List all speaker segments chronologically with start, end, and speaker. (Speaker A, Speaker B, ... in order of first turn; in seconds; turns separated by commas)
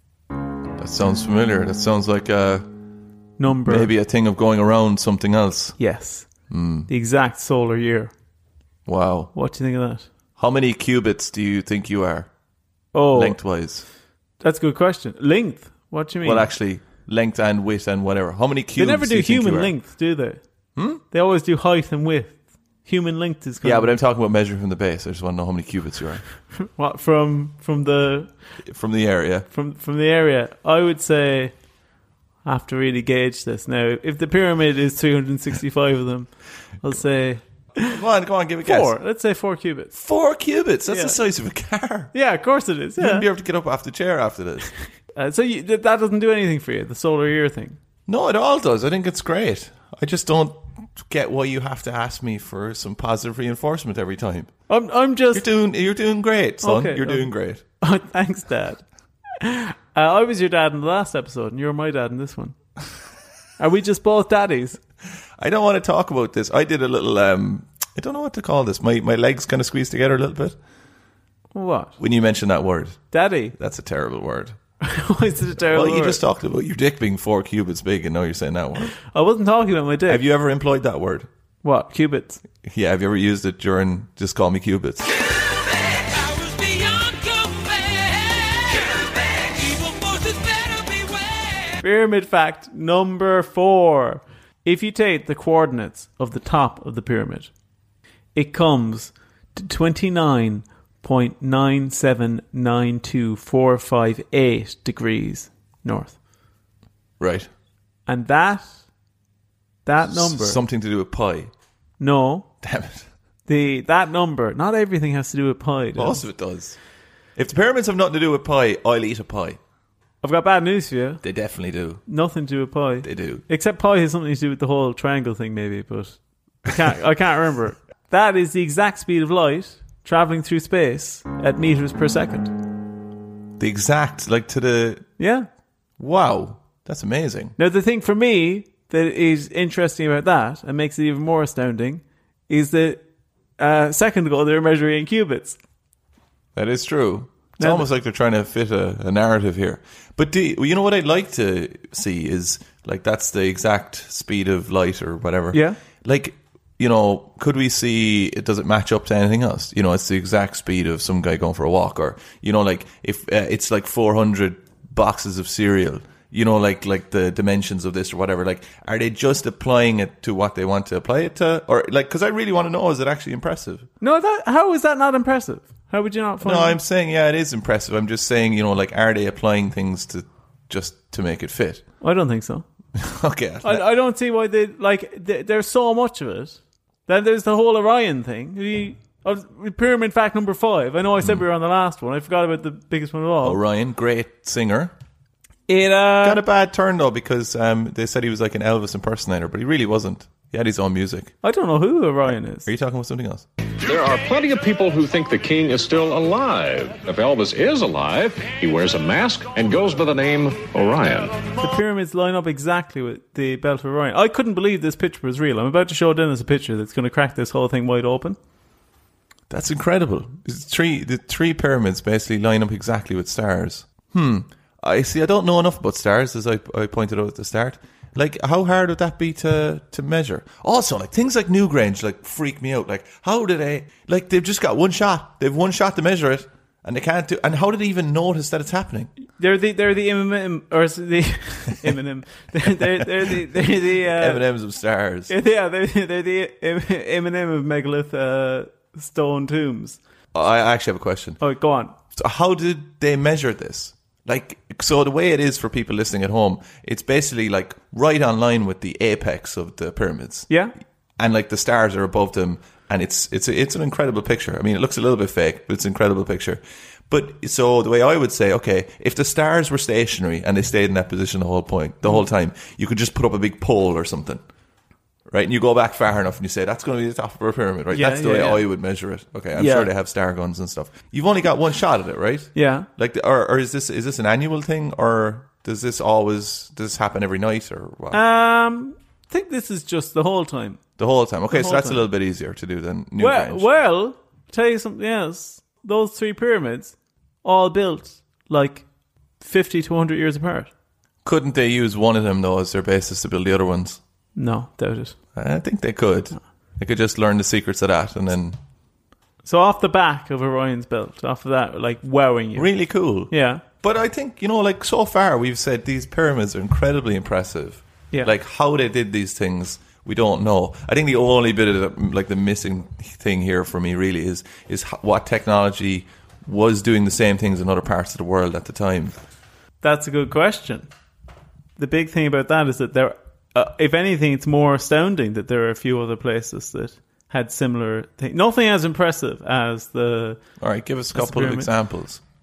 Speaker A: 0.8-2.7, Speaker B: 3.4-3.9, Speaker A: 3.5-5.8, Speaker B: 5.8-6.3, Speaker A: 6.5-6.9, Speaker B: 6.9-8.1, Speaker A: 8.9-9.3, Speaker B: 9.3-10.1, Speaker A: 10.4-12.3, Speaker B: 12.9-13.4, Speaker A: 13.1-13.9, Speaker B: 14.4-16.5, Speaker A: 16.2-19.7, Speaker B: 18.8-20.4, Speaker A: 20.8-21.0, Speaker B: 21.1-24.0, Speaker A: 23.6-26.2, Speaker B: 26.6-28.3, Speaker A: 28.7-29.5, Speaker B: 29.5-31.5, Speaker B: 32.5-38.0, Speaker A: 37.9-39.0, Speaker B: 38.6-40.0, Speaker A: 40.0-42.1, Speaker B: 40.9-41.2, Speaker B: 42.1-43.3, Speaker A: 43.0-44.7, Speaker B: 45.1-47.8, Speaker A: 48.1-54.5, Speaker B: 54.7-55.5, Speaker A: 55.3-57.6, Speaker B: 56.6-57.3, Speaker B: 57.8-58.8, Speaker B: 59.4-62.6, Speaker B: 63.6-64.8, Speaker A: 65.4-70.6, Speaker B: 71.5-72.0, Speaker A: 72.0-73.0, Speaker B: 73.1-73.6, Speaker A: 73.5-74.6, Speaker B: 74.8-76.2, Speaker A: 75.7-79.0, Speaker B: 79.0-80.2, Speaker A: 80.1-81.3, Speaker B: 81.6-82.4, Speaker A: 82.6-85.2, Speaker B: 85.9-97.5, Speaker B: 98.3-106.2, Speaker A: 107.2-107.5, Speaker B: 108.1-108.8, Speaker B: 109.8-110.6, Speaker A: 110.1-111.5, Speaker B: 112.0-112.5, Speaker A: 112.6-113.1, Speaker B: 113.5-116.2, Speaker A: 116.0-116.8, Speaker A: 117.4-119.6, Speaker B: 120.2-121.2, Speaker A: 121.2-122.0, Speaker B: 122.1-132.5, Speaker A: 123.0-123.4, Speaker A: 133.6-135.1, Speaker B: 135.2-135.5, Speaker A: 136.0-137.6, Speaker B: 137.6-143.0, Speaker B: 143.6-145.6, Speaker A: 146.6-173.9, Speaker B: 147.6-147.9, Speaker B: 155.5-155.8, Speaker B: 174.0-176.8, Speaker A: 176.4-181.8, Speaker B: 182.0-182.7, Speaker A: 183.0-183.9, Speaker B: 183.6-193.6, Speaker A: 193.4-194.9, Speaker B: 195.7-196.4, Speaker A: 196.2-201.3, Speaker B: 201.4-202.7, Speaker A: 202.7-203.5, Speaker C: 203.8-211.5, Speaker B: 211.6-218.4, Speaker A: 219.5-239.1, Speaker B: 239.4-244.4, Speaker A: 242.9-245.3, Speaker B: 245.3-250.0, Speaker A: 250.3-251.4, Speaker B: 251.4-252.0, Speaker A: 252.1-260.5, Speaker B: 260.5-260.7, Speaker A: 261.2-274.4, Speaker A: 275.3-288.2, Speaker B: 277.9-278.6, Speaker B: 279.6-279.9, Speaker B: 282.6-282.9, Speaker B: 288.1-290.8, Speaker A: 291.0-293.7, Speaker B: 291.5-292.1, Speaker B: 293.2-298.9, Speaker B: 299.4-300.7, Speaker A: 301.2-304.0, Speaker B: 304.4-305.2, Speaker A: 305.4-308.6, Speaker B: 309.4-312.7, Speaker A: 312.6-329.1, Speaker B: 313.3-313.6, Speaker B: 329.8-330.9, Speaker B: 331.8-340.4, Speaker A: 340.6-342.2, Speaker B: 341.1-341.7